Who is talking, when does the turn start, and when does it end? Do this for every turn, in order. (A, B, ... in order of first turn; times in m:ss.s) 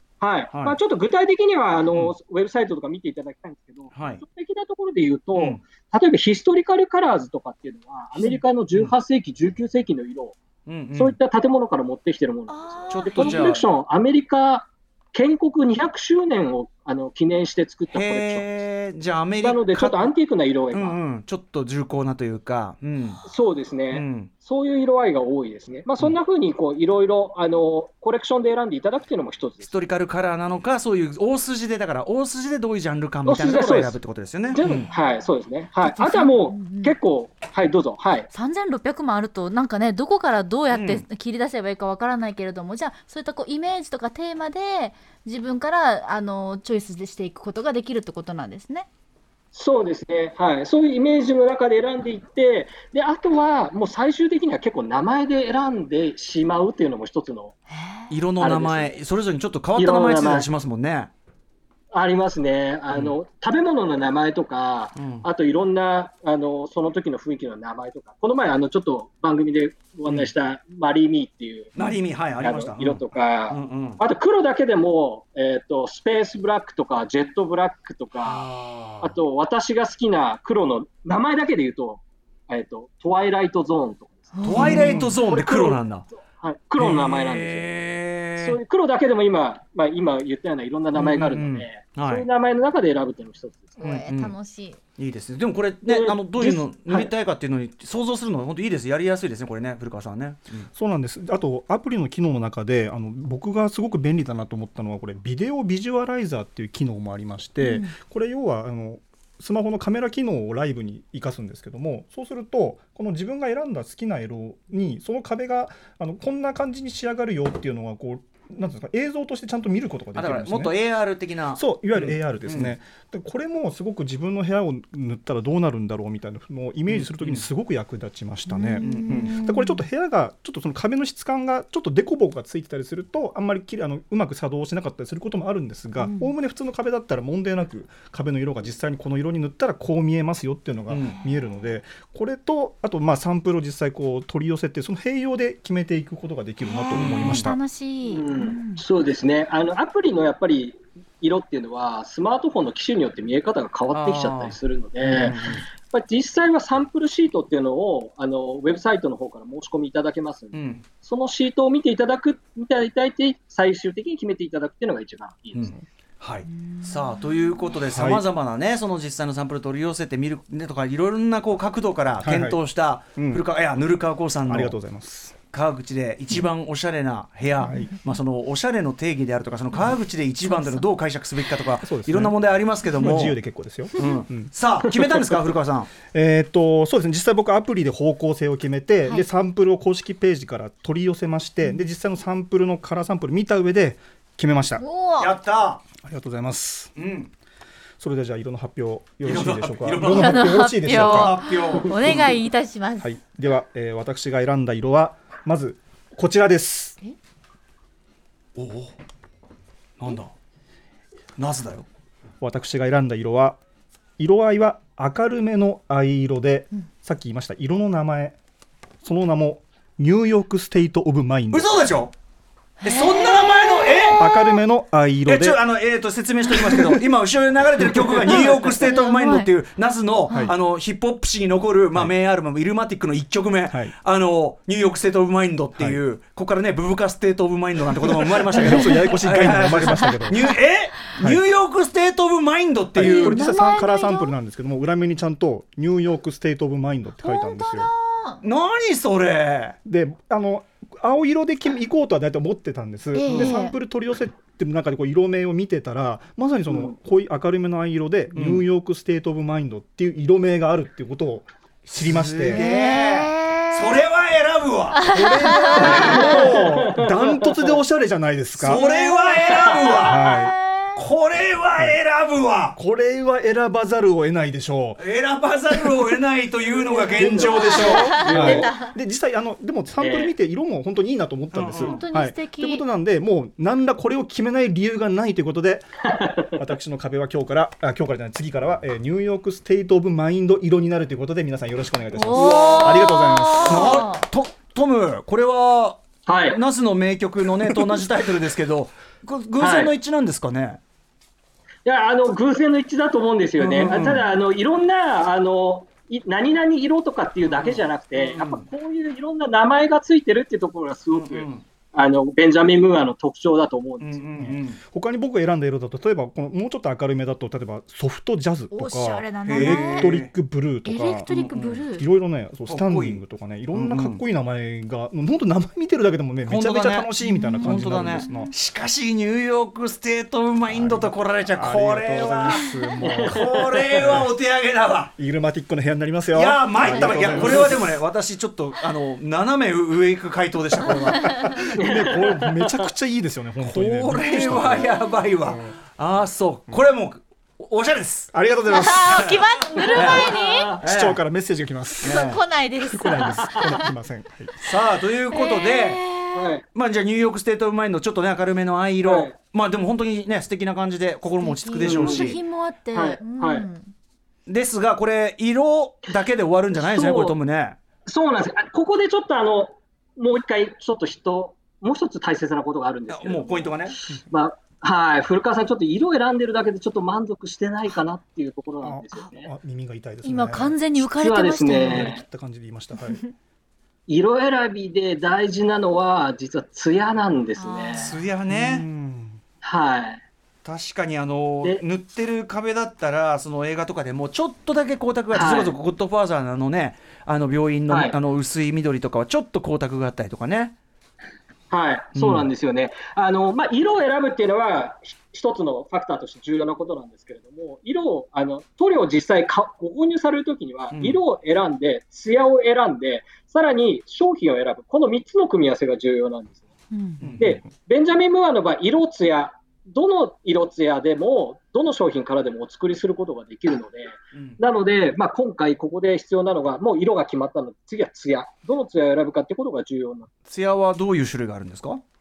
0:00.2-0:10.4 A
0:00.5-0:00.8 B
0:03.9-0:04.2 B
0:05.3-0:05.6 B
0:10.7-0:11.2 B
0:11.0-0:18.6 A
0:12.5-0:13.6 C
0:12.9-0:13.6 B
0:17.9-0:20.1 B
0:19.4-0:21.0 A
0:20.7-0:23.2 B
0:23.2-0:29.8 A
0:23.9-0:24.3 B
0:29.6-0:34.9 B
0:33.3-0:34.0 A
0:34.5-0:38.3 A
0:35.8-0:37.0 C
0:38.3-0:48.9 C
0:40.7-0:41.0 B
0:49.5-0:57.6 A
0:57.7-0:58.1 C
0:58.1-1:01.1 B
0:58.4-0:59.0 A
0:59.8-1:00.5 A
1:01.9-1:11.8 A
1:05.0-1:05.3 B
1:10.1-1:10.3 B
1:11.8-1:14.0 B
1:12.4-1:18.4 A
1:18.2-1:19.2 B
1:19.0-1:27.7 A
1:24.3-1:25.0 C
1:24.4-1:26.1 B
1:24.6-1:25.1 D
1:26.8-1:28.6 B
1:28.4-1:33.8 A
1:30.9-1:32.3 B
1:33.8-1:34.8 C
1:33.8-1:34.3 B
1:35.0-1:40.7 B
1:35.9-1:37.1 A
1:40.7-2:00.8 D
1:47.6-1:47.9 C
2:00.2-2:02.7 B
2:01.6-2:27.6 D
2:06.9-2:07.4 B
2:08.5-2:09.8 C
2:08.8-2:09.4 B
2:16.0-2:16.3 C
2:20.9-2:21.2 B
2:26.6-2:28.8 C
2:26.9-2:27.5 B
2:28.1-2:45.8 A
2:33.9-2:35.6 B
2:40.5-2:40.8 B
2:45.5-2:54.8 B
2:46.6-2:46.9 C
2:47.9-2:48.2 D
2:52.2-2:52.6 D
2:53.2-2:53.4 D
2:54.5-2:55.4 D
2:55.5-3:03.4 B
2:57.7-2:57.9 D
3:00.5-3:00.8 C
3:01.8-3:02.4 D
3:03.0-3:04.5 D
3:04.0-3:05.9 B
3:06.1-3:14.8 D
3:14.8-3:15.3 C
3:15.2-3:15.8 B
3:16.0-3:16.9 D
3:17.0-3:17.3 B
3:18.0-3:21.4 D
3:19.2-3:22.3 B
3:20.0-3:23.1 C
3:23.0-3:27.0 D
3:28.6-3:28.9 B
3:30.0-3:30.3 B
3:31.4-3:31.9 B
3:32.4-3:33.6 D
3:34.2-3:38.4 D
3:39.0-3:41.7 D
3:41.5-3:42.1 B
3:42.8-3:44.4 C
3:42.8-3:44.3 B
3:44.2-3:45.6 D
3:45.3-4:03.4 B
3:47.9-3:48.5 D
3:48.8-3:49.5 C
3:55.8-3:56.0 D
3:58.5-4:00.4 D
3:58.6-3:58.9 C
4:02.9-4:07.9 D
4:03.0-4:04.3 C
4:07.2-4:08.4 C
4:08.4-4:09.8 B
4:09.8-4:22.6 D
4:13.2-4:13.8 C
4:16.7-4:16.9 A
4:18.3-4:18.6 B
4:21.9-4:26.7 B
4:22.5-4:24.0 C
4:25.0-4:26.2 C
4:25.1-4:28.8 D
4:25.8-4:27.8 A
4:28.6-4:30.3 B
4:28.6-4:31.0 C
4:29.5-4:30.0 A
4:30.0-4:30.6 D
4:31.0-4:32.8 B
4:32.8-4:35.0 D
4:35.0-4:38.7 B
4:36.7-4:38.8 A
4:37.2-4:45.9 D
4:37.5-4:38.9 C
4:40.0-4:40.3 A
4:41.5-4:42.0 B
4:41.8-4:42.8 C
4:46.1-4:46.5 A
4:46.5-4:54.1 D
4:52.1-4:54.2 C
4:52.3-5:00.8 B
4:56.3-4:56.6 A
4:59.6-4:59.9 A
5:01.8-5:14.2 A
5:03.6-5:04.2 B
5:07.5-5:08.6 B
5:11.1-5:11.6 B
5:14.0-5:14.8 B
5:14.4-5:21.3 D
5:18.7-5:20.1 C
5:19.5-5:20.3 B
5:20.8-5:22.0 C
5:21.3-5:21.8 B
5:21.9-5:28.5 D
5:22.7-5:23.2 B
5:23.7-5:24.2 B
5:26.5-5:35.1 B
5:27.2-5:28.5 C
5:30.7-5:34.3 D
5:33.0-5:34.2 A
5:35.2-5:38.0 D
5:36.3-5:41.5 B
5:41.2-5:41.6 C
5:41.3-5:45.8 D
5:41.8-5:42.8 A
5:43.6-5:48.3 B
5:44.7-5:45.1 C
5:48.3-5:49.4 D
5:48.7-5:50.7 C
5:49.1-5:49.4 B
5:49.8-5:50.8 A
5:49.9-5:50.3 B
5:50.8-5:51.2 B
5:50.8-5:54.6 D
5:52.0-5:52.4 B
5:52.0-5:53.9 C
5:54.6-5:56.0 B
5:55.3-5:56.5 C
5:56.3-5:56.6 A
5:56.7-6:02.4 B
5:59.0-5:59.4 A
6:01.4-6:03.9 C
6:01.8-6:02.4 A
6:02.9-6:03.7 A
6:04.5-6:07.8 B
6:06.8-6:07.4 A
6:08.1-6:19.5 A
6:13.1-6:14.0 B
6:18.8-6:20.8 D
6:20.2-6:22.1 C
6:21.0-6:22.2 A
6:21.7-6:23.2 D
6:24.1-6:28.1 A
6:27.6-6:28.2 C
6:27.9-6:28.9 B
6:28.5-6:29.4 D
6:29.6-6:30.2 A
6:30.6-6:40.8 B
6:35.3-6:35.7 A
6:37.9-6:38.2 A
6:41.7-6:56.6 A
6:42.2-6:42.5 B
6:50.9-6:51.2 B
6:56.9-6:57.2 C
6:57.2-6:57.6 B
6:57.4-7:10.3 A
7:04.3-7:04.6 B
7:10.5-7:12.0 B